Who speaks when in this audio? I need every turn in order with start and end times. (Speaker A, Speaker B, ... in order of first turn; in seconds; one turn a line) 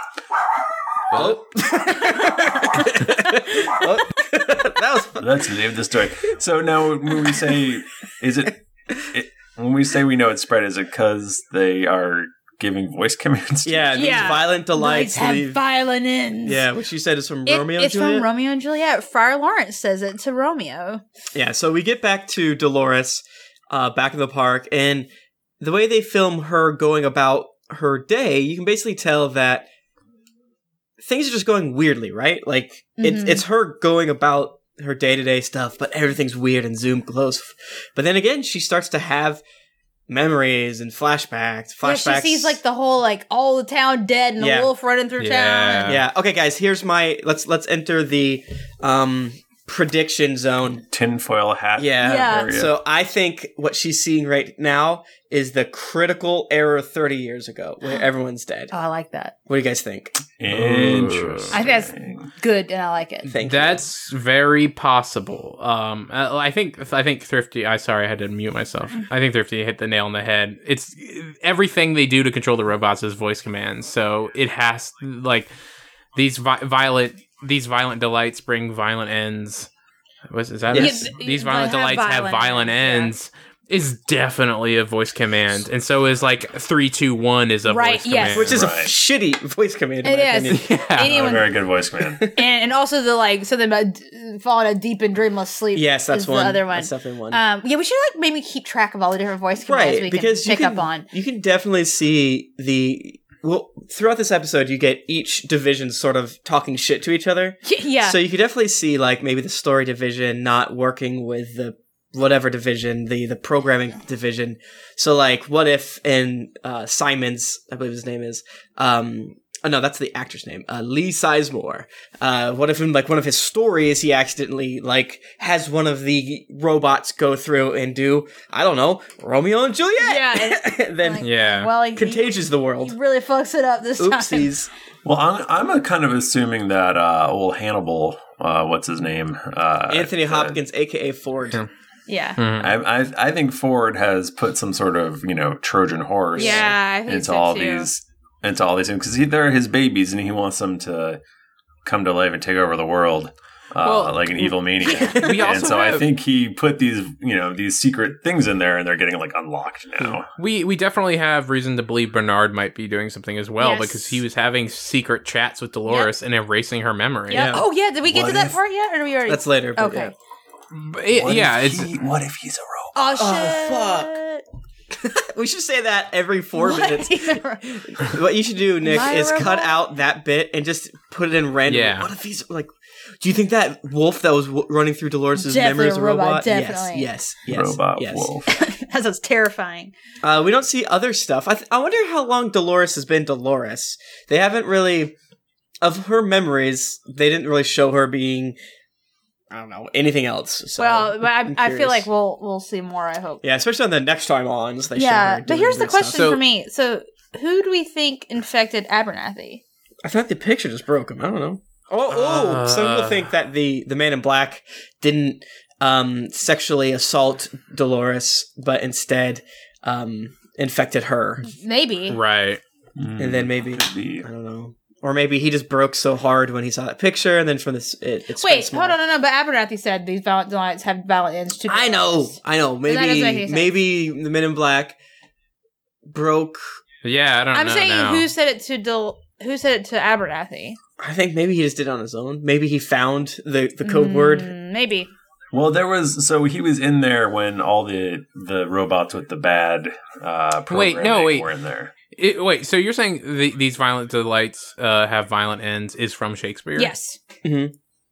Speaker A: 1.1-1.4
Speaker B: 1.1-5.6
Speaker C: 5.2-14.4
Speaker B: 13.6-15.6
Speaker D: 13.9-16.6
Speaker B: 16.4-18.3
Speaker D: 17.5-21.0
Speaker B: 21.3-25.1
Speaker B: 25.6-29.7
Speaker B: 31.0-39.4
Speaker D: 33.0-33.4
Speaker B: 40.1-42.6
Speaker D: 41.8-46.0
Speaker B: 44.4-44.7
Speaker A: 45.2-46.0
Speaker B: 45.8-50.8
Speaker C: 50.9-52.7
Speaker B: 51.8-58.7
Speaker D: 52.0-52.5
Speaker D: 58.7-59.3
Speaker B: 59.5-60.1
Speaker C: 60.4-62.3
Speaker A: 60.5-61.6
Speaker D: 61.5-63.3
Speaker B: 63.2-63.8
Speaker A: 63.4-75.5
Speaker A: 76.1-79.7
Speaker A: 80.3-88.6
Speaker B: 80.7-81.1
Speaker D: 80.7-83.1
Speaker D: 87.7-88.5
Speaker B: 88.3-90.7
Speaker C: 88.4-88.9
Speaker D: 90.0-91.5
Speaker A: 90.5-91.4
Speaker C: 91.0-92.2
Speaker B: 92.0-92.4
Speaker D: 92.3-101.1
Speaker B: 95.7-97.4
Speaker B: 99.7-131.2
Speaker D: 107.6-108.2
Speaker D: 130.0-134.5
Speaker A: 131.2-131.7
Speaker B: 131.9-132.9
Speaker B: 134.0-134.7
Speaker C: 135.0-140.6
Speaker B: 139.9-141.6
Speaker D: 142.1-142.4
Speaker A: 142.4-142.7
Speaker C: 142.6-151.2
Speaker D: 146.3-147.9
Speaker B: 146.3-146.8
Speaker C: 151.8-160.3
Speaker A: 153.8-156.1
Speaker D: 154.8-155.2
Speaker A: 160.3-167.6
Speaker D: 163.6-164.2
Speaker B: 167.3-167.7
Speaker D: 167.3-170.1
Speaker C: 168.1-168.6
Speaker B: 169.2-170.1
Speaker A: 170.7-171.9
Speaker C: 171.1-173.2
Speaker D: 172.9-174.4
Speaker B: 173.2-174.1
Speaker B: 174.9-182.7
Speaker D: 176.6-178.1
Speaker D: 178.8-179.8
Speaker A: 181.7-182.1
Speaker B: 183.2-188.3
Speaker D: 185.4-187.1
Speaker C: 187.5-188.5
Speaker D: 188.5-189.9
Speaker B: 190.2-195.1
Speaker B: 195.8-198.6
Speaker B: 199.5-202.1
Speaker D: 200.8-203.4
Speaker B: 203.4-206.3
Speaker D: 204.9-209.6
Speaker A: 206.1-206.4
Speaker B: 210.0-221.5
Speaker A: 212.1-213.3
Speaker D: 221.5-222.2
Speaker A: 222.1-222.6
Speaker C: 223.0-224.3
Speaker B: 223.2-229.0
Speaker D: 228.4-232.3
Speaker B: 231.7-235.0
Speaker D: 232.8-233.8
Speaker B: 236.1-236.8
Speaker A: 237.0-238.3
Speaker D: 237.5-240.8
Speaker B: 241.0-244.5
Speaker D: 243.8-245.1
Speaker C: 245.5-251.9
Speaker A: 250.7-251.5
Speaker A: 252.1-256.9
Speaker D: 256.8-257.2
Speaker B: 257.4-257.7